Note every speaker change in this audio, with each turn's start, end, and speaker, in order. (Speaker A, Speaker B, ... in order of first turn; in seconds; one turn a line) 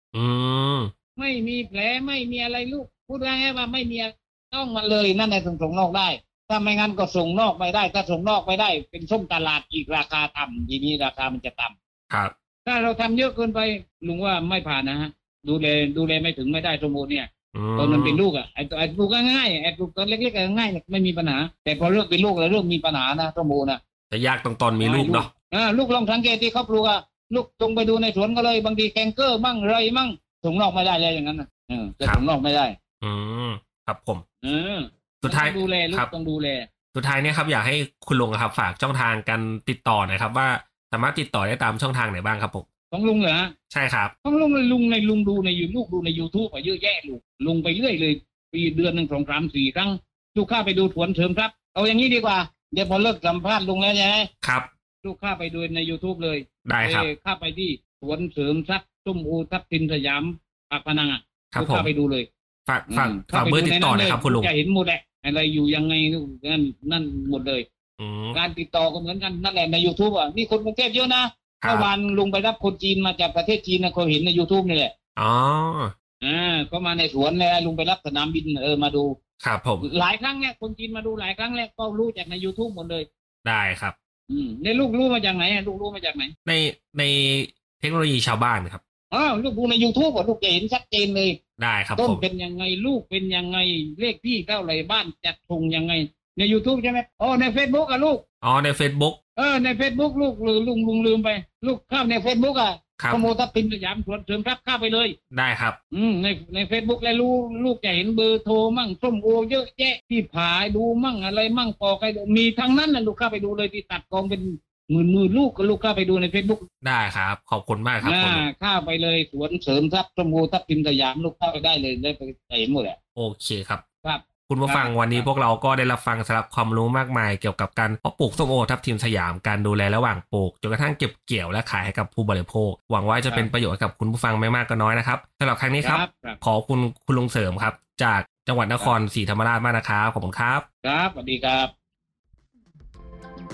Speaker A: 0.1-0.9
Speaker B: 1.2-11.7
Speaker B: 12.7-23.8
Speaker A: 17.5-18.2
Speaker A: 24.1-25.3
Speaker B: 24.8-32.8
Speaker A: 33.0-34.2
Speaker B: 34.4-36.7
Speaker A: 35.2-36.1
Speaker A: 36.9-42.6
Speaker B: 42.9-43.5
Speaker A: 43.7-44.1
Speaker B: 44.2-54.3
Speaker A: 54.4-54.7
Speaker B: 55.0-62.3
Speaker A: 56.6-57.1
Speaker A: 61.5-61.9
Speaker A: 62.7-64.5
Speaker B: 62.9-67.7
Speaker A: 68.0-68.4
Speaker B: 68.3-74.9
Speaker A: 71.6-71.9
Speaker A: 75.2-75.9
Speaker B: 76.2-79.2
Speaker A: 79.4-79.9
Speaker B: 79.8-83.1
Speaker A: 83.4-83.9
Speaker B: 84.3-86.3
Speaker A: 86.5-88.8
Speaker B: 89.1-91.4
Speaker A: 91.6-92.2
Speaker B: 92.0-98.2
Speaker A: 98.4-99.2
Speaker B: 99.4-105.2
Speaker A: 103.0-103.2
Speaker A: 105.3-105.8
Speaker B: 105.9-116.7
Speaker A: 116.8-118.4
Speaker B: 118.0-123.0
Speaker A: 123.2-123.8
Speaker B: 124.0-125.3
Speaker A: 124.5-140.7
Speaker B: 135.8-136.4
Speaker B: 140.8-141.7